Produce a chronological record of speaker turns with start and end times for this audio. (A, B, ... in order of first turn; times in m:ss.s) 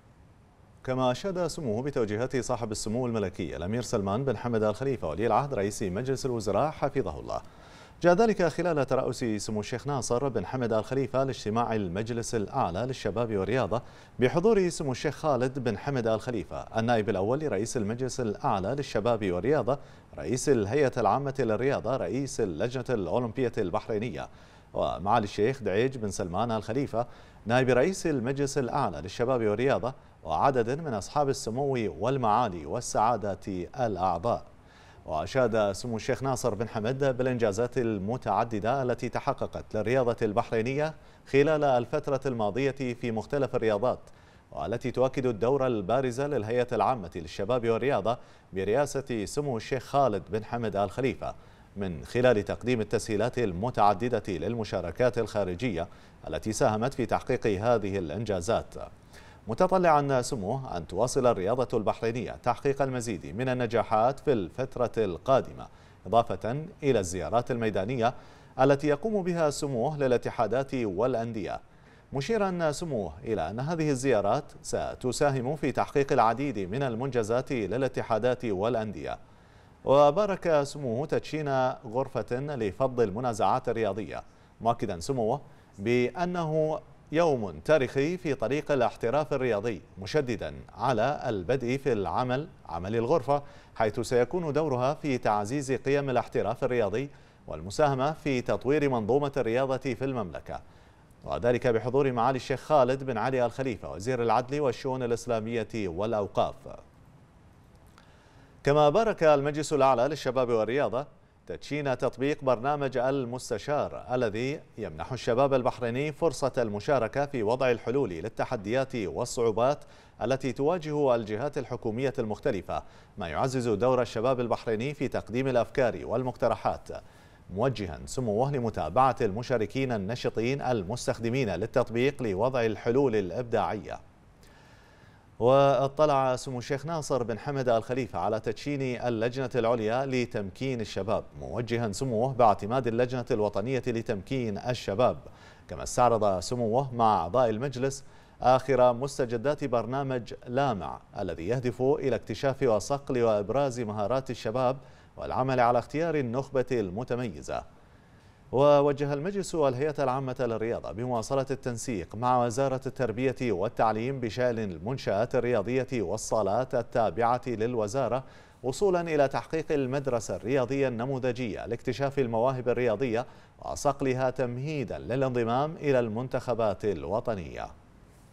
0:00.8-0:07.4 A
0:08.0-0:34.4 A
0:35.1-0:58.9 A
0:59.5-1:11.6 A
1:12.1-1:19.2 A
1:19.8-1:40.6 A
1:41.2-1:46.8 A
1:48.6-2:07.0 A
2:07.5-2:14.0 A
2:15.4-2:37.6 A
2:38.5-2:57.7 A